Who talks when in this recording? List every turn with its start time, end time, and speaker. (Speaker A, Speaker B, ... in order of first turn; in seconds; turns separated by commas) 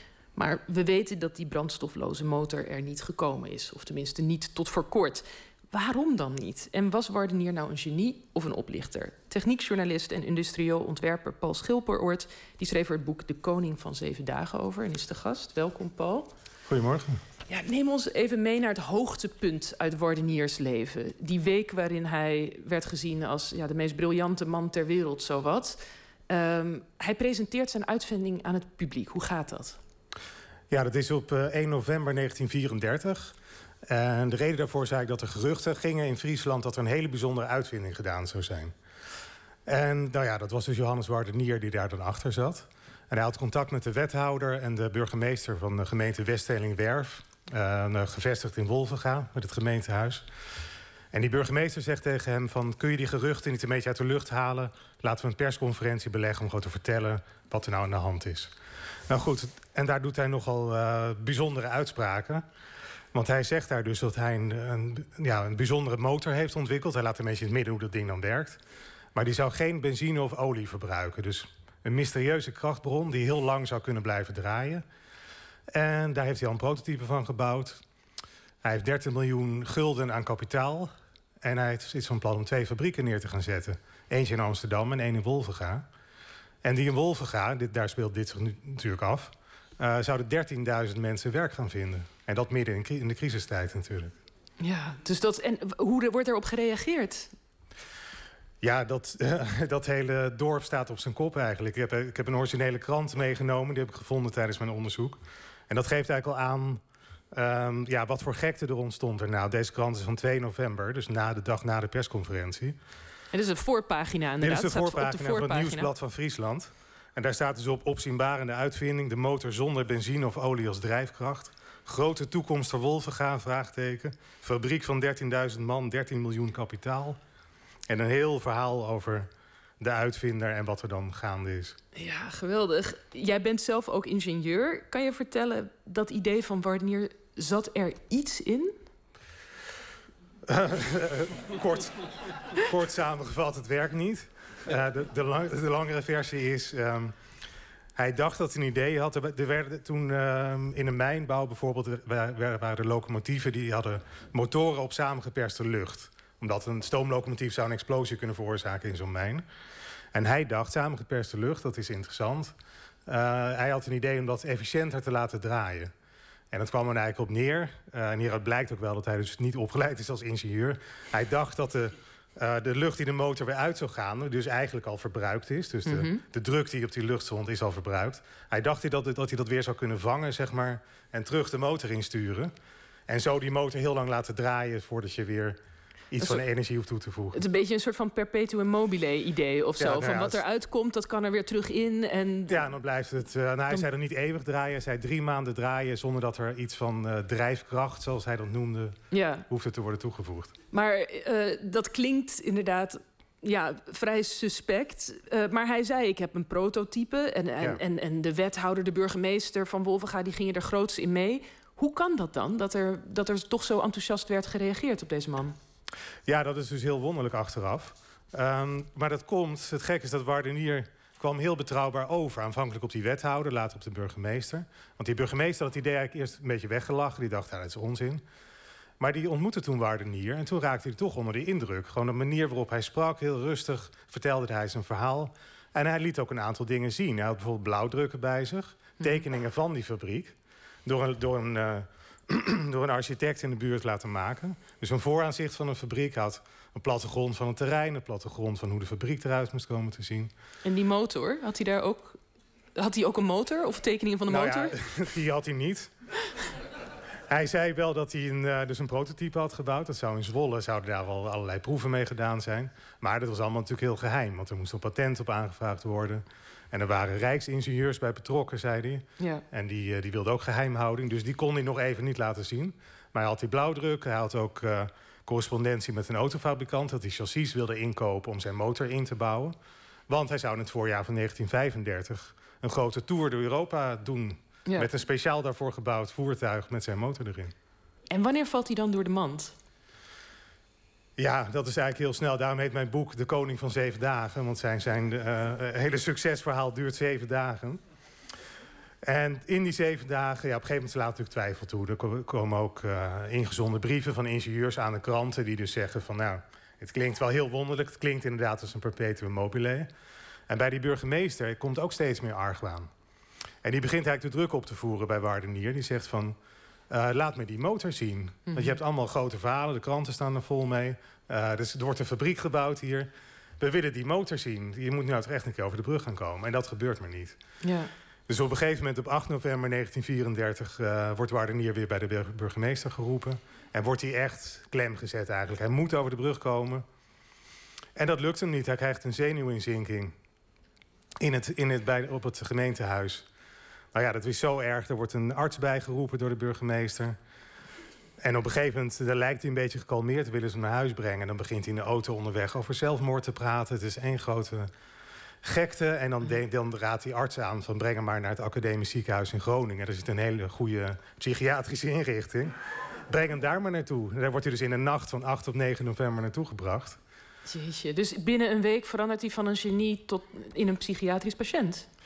Speaker A: 0.3-16.3, Speaker B: 16.7-17.2, Speaker A: 17.5-25.8, Speaker A: 26.3-29.8, Speaker B: 30.7-33.4, Speaker B: 33.9-38.7, Speaker B: 39.7-50.2, Speaker B: 51.1-58.5, Speaker B: 59.1-62.4, Speaker B: 63.1-68.6, Speaker B: 69.2-74.8, Speaker B: 75.7-77.8, Speaker B: 78.6-80.9, Speaker B: 81.4-85.8, Speaker B: 86.6-94.2, Speaker A: 94.6-97.3, Speaker B: 98.6-105.2, Speaker B: 105.7-106.8, Speaker B: 107.3-112.8, Speaker A: 113.3-115.9, Speaker B: 114.4-127.2, Speaker B: 127.9-129.3, Speaker B: 129.8-131.8, Speaker A: 131.9-138.7, Speaker B: 140.5-142.0, Speaker B: 142.5-147.1, Speaker B: 148.0-159.4, Speaker B: 160.1-162.6, Speaker B: 163.1-165.9, Speaker B: 166.5-182.5, Speaker A: 175.9-176.2, Speaker B: 183.1-185.6, Speaker B: 186.1-187.4, Speaker A: 187.3-192.6, Speaker B: 189.8-190.4, Speaker B: 192.5-199.0, Speaker A: 199.1-199.5, Speaker B: 199.5-200.5, Speaker A: 200.7-215.6, Speaker B: 216.3-228.2, Speaker B: 229.0-240.3, Speaker B: 240.9-250.3, Speaker A: 250.6-252.2, Speaker A: 252.8-254.8, Speaker B: 254.3-255.9, Speaker B: 257.3-279.6, Speaker A: 269.2-269.4, Speaker B: 280.1-287.5, Speaker A: 288.1-289.5, Speaker B: 291.2-297.8, Speaker B: 299.0-309.9, Speaker B: 310.5-312.9, Speaker B: 313.6-316.4, Speaker B: 316.9-327.4, Speaker A: 318.5-318.8, Speaker A: 327.6-327.9, Speaker B: 328.3-336.8, Speaker B: 338.0-340.1, Speaker B: 341.2-343.3, Speaker B: 343.9-347.2, Speaker B: 348.2-354.7, Speaker B: 355.4-362.5, Speaker B: 363.1-367.0, Speaker A: 367.5-371.9